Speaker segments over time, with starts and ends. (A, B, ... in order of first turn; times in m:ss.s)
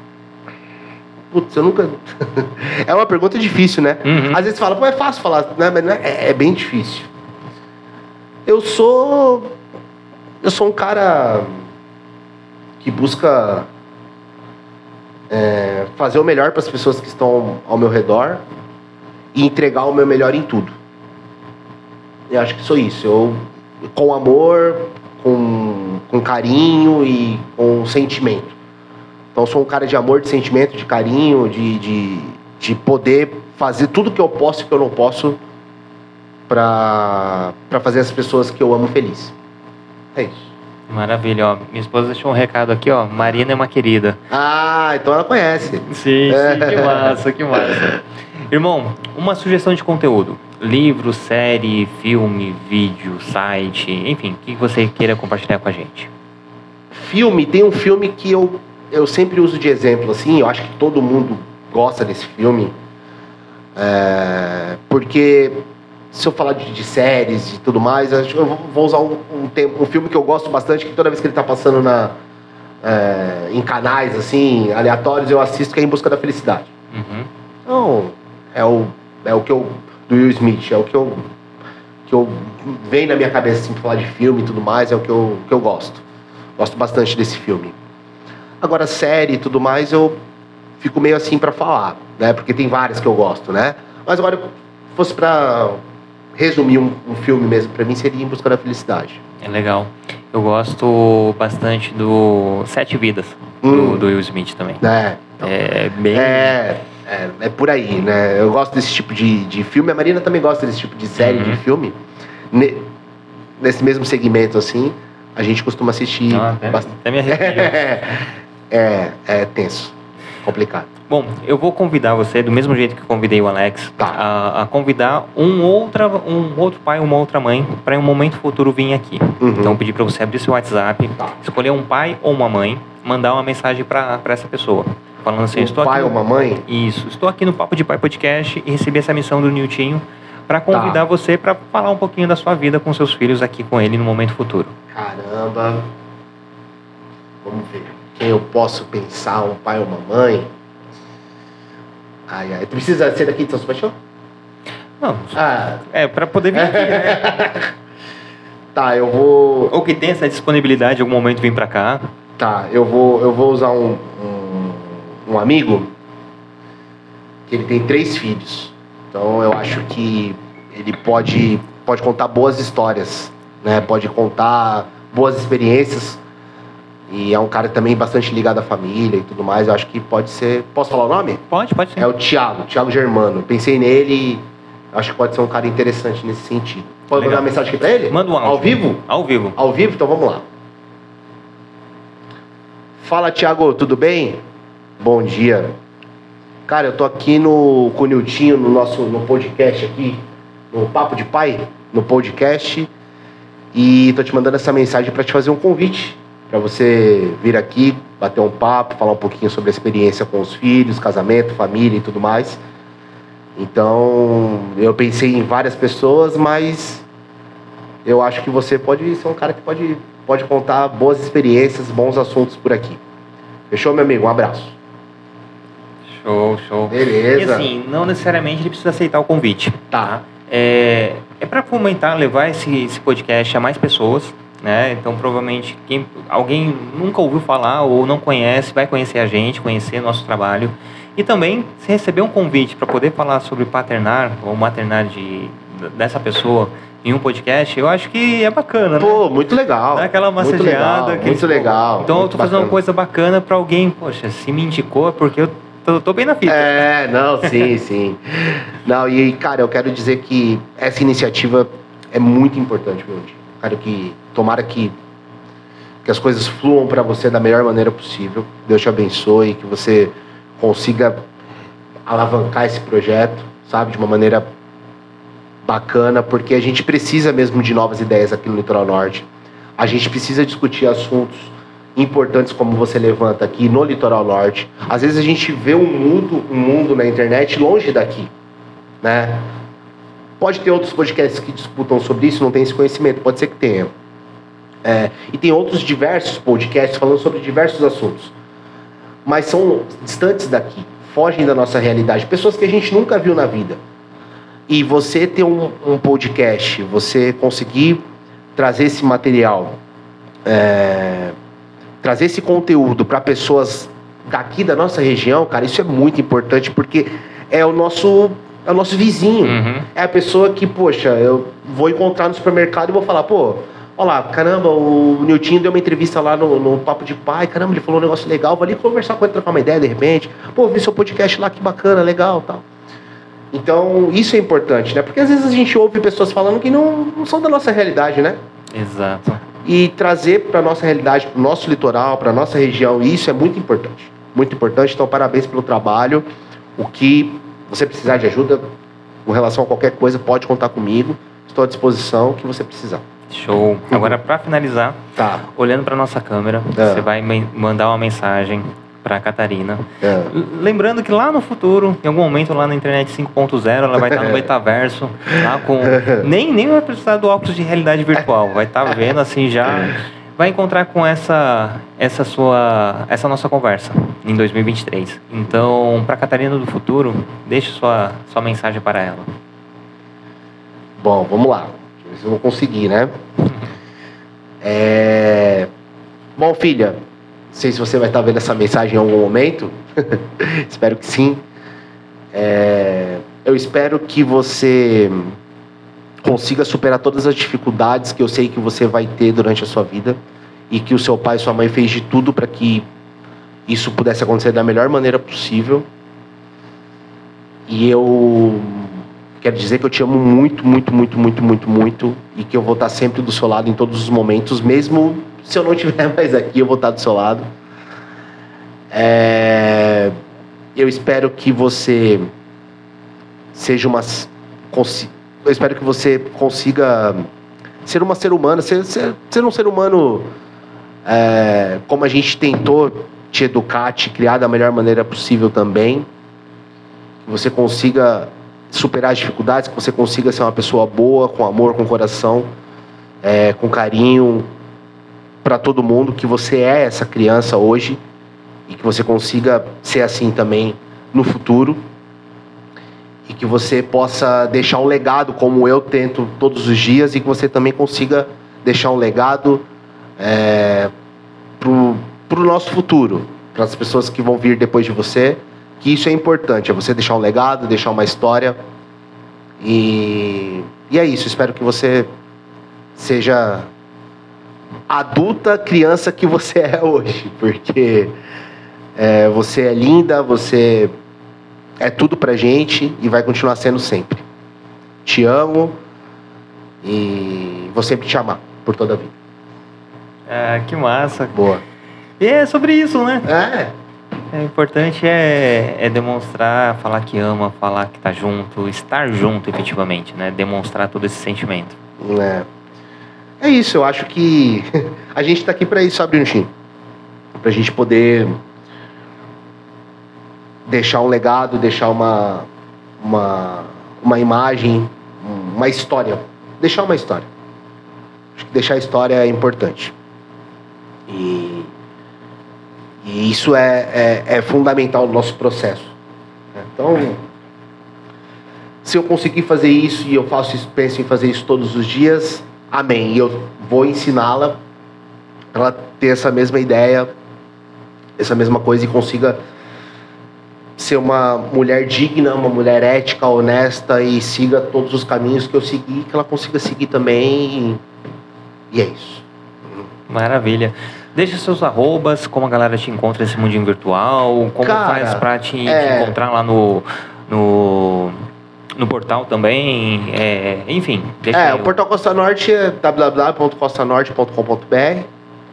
0:01.3-0:07.1 A
0:04.0-0:04.5 B
0:08.5-0:09.6 A
0:10.4-0:11.6 A
0:12.8-0:13.7 A
0:15.3-0:18.4 A
0:19.3-0:20.8 A
0:22.3-0:28.6 A
0:29.4-0:35.4 A
0:36.5-0:39.4 A
0:40.2-0:40.5 A
0:40.9-0:44.2 B
0:44.3-0:47.9 A
0:45.9-0:56.1 B
0:56.9-1:02.8 A
1:03.8-1:12.1 A
1:12.8-1:16.7 A
1:16.9-1:17.3 B
1:17.7-1:21.2 A
1:22.1-1:26.0 A
1:26.6-1:27.8 A
1:28.6-1:30.2 A
1:30.8-1:35.8 A
1:36.4-1:39.2 A
1:39.4-1:44.8 B
1:43.6-1:44.0 A
1:44.8-1:45.5 A
1:45.4-1:46.6 B
1:46.1-1:52.0 A
1:51.2-1:51.6 B
1:52.5-1:52.9 A
1:53.6-2:00.9 A
1:56.3-1:57.8 B
2:01.1-2:24.7 B
2:09.4-2:09.8 A
2:15.5-2:16.6 A
2:20.7-2:21.0 A
2:24.9-2:25.9 A
2:27.4-2:30.5 A
2:32.3-2:34.0 A
2:35.0-2:37.3 B
2:35.4-2:35.8 A
2:36.5-2:37.7 A
2:38.7-2:39.7 A
2:39.7-2:42.0 B
2:42.4-2:45.9 A
2:47.5-2:56.2 A
2:57.1-3:01.4 A
3:01.5-3:02.1 B
3:02.0-3:09.0 A
3:07.2-3:07.5 B
3:08.1-3:09.6 B
3:09.6-3:10.5 A
3:13.0-3:14.4 A
3:15.0-3:15.7 A
3:16.7-3:20.2 A
3:20.7-3:22.9 A
3:23.7-3:32.6 A
3:33.6-3:37.1 A
3:38.0-3:43.0 A
3:43.7-3:44.8 A
3:46.1-4:09.2 B
3:46.9-3:47.7 A
4:09.0-4:12.8 A
4:09.9-4:16.9 B
4:16.5-4:24.9 A
4:17.4-4:17.7 B
4:26.0-4:31.2 A
4:32.1-4:34.5 A
4:35.7-4:48.3 A
4:49.0-4:49.5 A
4:50.4-4:53.9 A
4:54.8-4:58.3 A
4:59.2-5:03.8 A
5:04.7-5:08.0 A
5:08.6-5:09.8 A
5:10.4-5:11.4 A
5:12.0-5:32.6 A
5:19.4-5:19.9 B
5:33.5-5:38.4 A
5:38.7-5:39.4 B
5:39.6-5:46.3 A
5:46.8-5:48.6 A
5:49.3-5:53.0 A
5:53.3-6:19.3 B
5:53.9-5:54.2 A
5:55.2-5:55.4 A
5:56.8-5:57.1 A
6:00.0-6:00.3 A
6:04.1-6:04.4 A
6:05.9-6:06.2 A
6:21.0-6:23.1 A
6:24.6-6:25.7 A
6:26.4-6:27.0 A
6:27.5-6:31.4 A
6:32.3-6:35.4 A
6:36.2-6:40.2 A
6:40.7-6:42.9 A
6:43.7-6:45.9 A
6:47.7-6:57.5 A
6:58.9-7:00.2 A
7:00.8-7:02.3 A
7:03.5-7:07.3 A
7:07.8-7:10.3 A
7:11.0-7:16.1 A
7:17.2-7:22.5 A
7:23.2-7:24.5 A
7:25.4-7:28.0 A
7:28.7-7:31.8 A
7:33.3-7:39.7 A
7:40.2-7:40.9 A
7:41.6-7:48.6 A
7:49.6-7:52.1 A
7:53.0-7:53.7 A
7:54.9-7:58.2 A
7:59.0-8:00.9 A
8:01.8-8:04.2 A
8:05.0-8:05.8 A
8:06.8-8:09.1 A
8:10.3-8:11.4 B
8:11.3-8:11.6 A
8:12.2-8:13.3 B
8:13.3-8:13.7 A
8:14.3-8:21.8 B
8:22.0-8:22.5 A
8:23.4-8:26.5 A
8:27.4-8:28.4 A
8:30.7-8:32.5 A
8:33.0-8:37.3 A
8:38.4-8:39.9 A
8:41.1-8:41.7 A
8:43.0-8:45.9 A
8:46.6-8:47.2 A
8:48.8-8:54.6 A
8:55.5-8:57.1 A
8:58.2-8:59.4 A
9:00.8-9:07.8 A
9:08.7-9:09.9 A
9:10.1-9:18.2 B
9:14.6-9:16.2 A
9:18.8-9:21.8 B
9:21.3-9:25.1 A